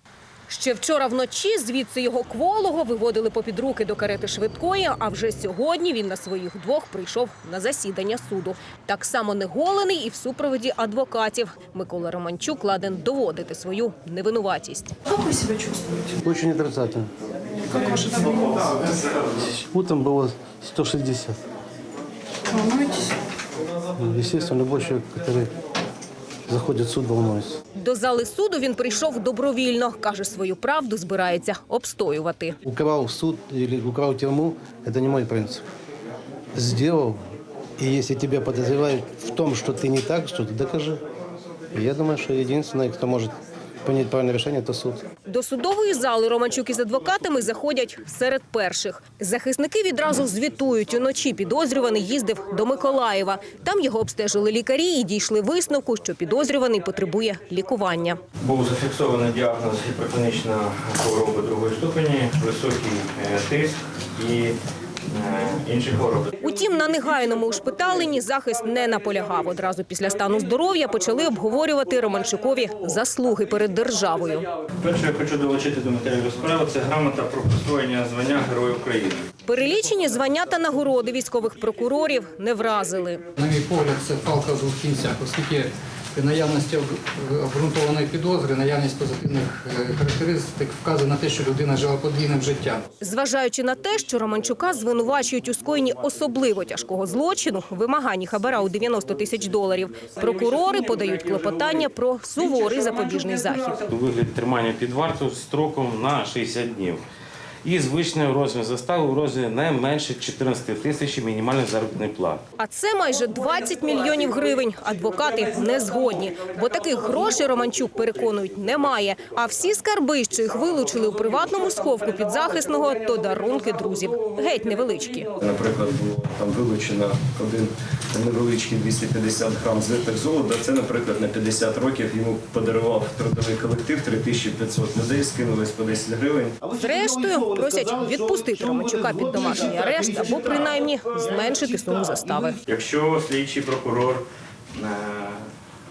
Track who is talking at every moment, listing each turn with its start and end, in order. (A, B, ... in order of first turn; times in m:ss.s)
0:00.5-0:15.0 A
0:15.1-0:16.1 B
0:16.2-0:17.1 C
0:17.7-0:18.8 B
0:19.4-0:21.4 C
0:22.5-0:23.1 B
0:24.0-0:25.5 C
0:26.5-0:27.6 C
0:27.8-0:32.6 A
0:32.7-0:35.6 C
0:36.6-0:37.2 C
0:37.8-0:41.0 C
0:41.7-0:45.1 C
0:45.2-0:58.2 A
0:58.4-1:04.6 D
1:05.1-1:06.4 D
1:06.4-1:14.5 A
1:14.8-1:19.3 D
1:19.4-1:23.2 A
1:23.4-1:32.8 E
1:33.0-1:43.8 A
1:43.9-1:47.0 F
1:47.6-1:52.4 F
1:52.6-2:05.3 A
2:05.4-2:16.6 G
2:16.6-2:22.5 C
2:16.8-2:22.6 A
2:22.7-2:25.4 D